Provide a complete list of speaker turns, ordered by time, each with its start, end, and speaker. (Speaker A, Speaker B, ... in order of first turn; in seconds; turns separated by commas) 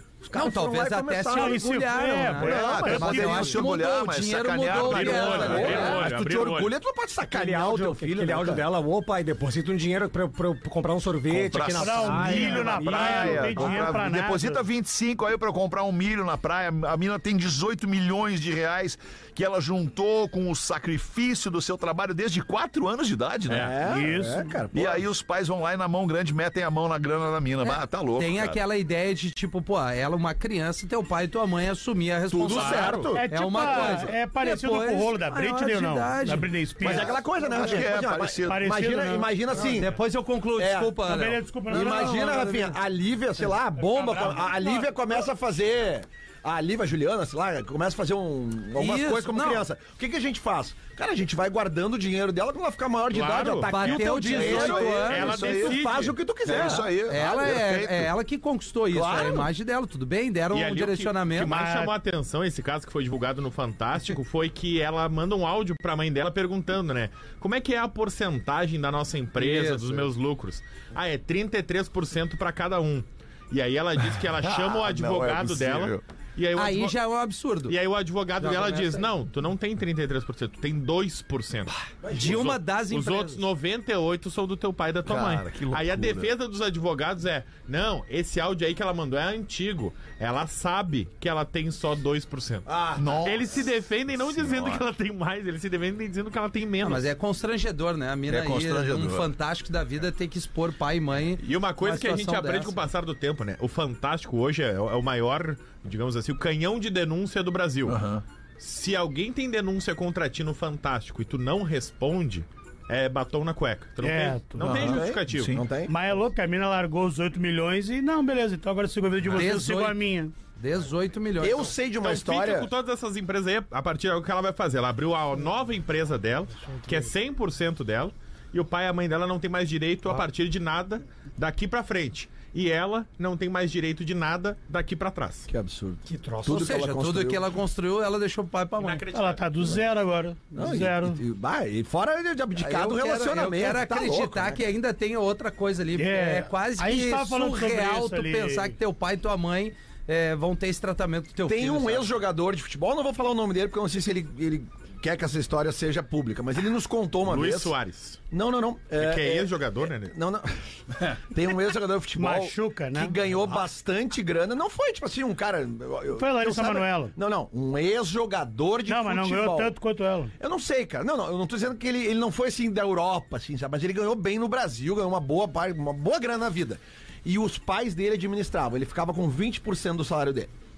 Speaker A: 0.2-3.1, Speaker B: 0.3-6.0, Speaker C: 1.3-3.8, Speaker D: 2.4-6.0, Speaker E: 4.7-6.7, Speaker A: 5.0-8.6, Speaker F: 7.3-13.9, Speaker D: 11.3-23.9, Speaker C: 11.8-14.6, Speaker E: 23.5-23.8, Speaker A: 23.5-25.1, Speaker C: 23.8-24.6, Speaker D: 24.7-28.6, Speaker B: 27.6-36.5, Speaker A: 32.3-34.1, Speaker E: 32.5-33.1, Speaker C: 33.1-37.1, Speaker A: 36.8-40.0, Speaker D: 36.8-38.7, Speaker C: 38.5-39.8, Speaker B: 39.6-42.4, Speaker A: 40.6-41.0, Speaker C: 41.0-42.7, Speaker A: 41.7-56.9, Speaker C: 43.9-44.8, Speaker B: 48.8-49.6, Speaker E: 53.1-56.2, Speaker B: 53.6-55.3, Speaker D: 54.2-55.9, Speaker D: 56.4-58.1, Speaker B: 56.5-61.6, Speaker A: 58.9-59.5, Speaker E: 60.5-77.0, Speaker C: 61.5-61.9, Speaker B: 69.4-70.1, Speaker D: 74.1-76.0, Speaker B: 76.5-77.7, Speaker E: 77.7-97.0, Speaker B: 78.4-79.0, Speaker A: 82.0-82.4, Speaker B: 82.1-83.4, Speaker D: 85.0-86.3, Speaker A: 92.7-93.0, Speaker D: 93.0-94.8, Speaker B: 96.8-102.8, Speaker D: 98.3-99.3, Speaker E: 101.4-108.0, Speaker D: 107.8-108.2, Speaker E: 108.6-115.5, Speaker C: 114.0-114.8, Speaker D: 114.6-115.6, Speaker A: 114.7-115.9, Speaker C: 115.8-120.3, Speaker B: 119.3-121.7, Speaker A: 121.4-122.7, Speaker E: 122.0-135.5, Speaker A: 135.5-137.4, Speaker F: 136.1-136.7, Speaker B: 136.4-139.0, Speaker E: 138.8-139.8, Speaker C: 139.1-141.2, Speaker A: 140.6-144.7, Speaker B: 142.5-152.1, Speaker C: 145.9-148.7, Speaker A: 151.4-157.7, Speaker E: 157.2-158.2, Speaker A: 158.3-169.7, Speaker E: 158.9-160.1, Speaker C: 162.2-163.2, Speaker C: 166.2-167.1, Speaker C: 168.8-170.3, Speaker A: 170.4-180.5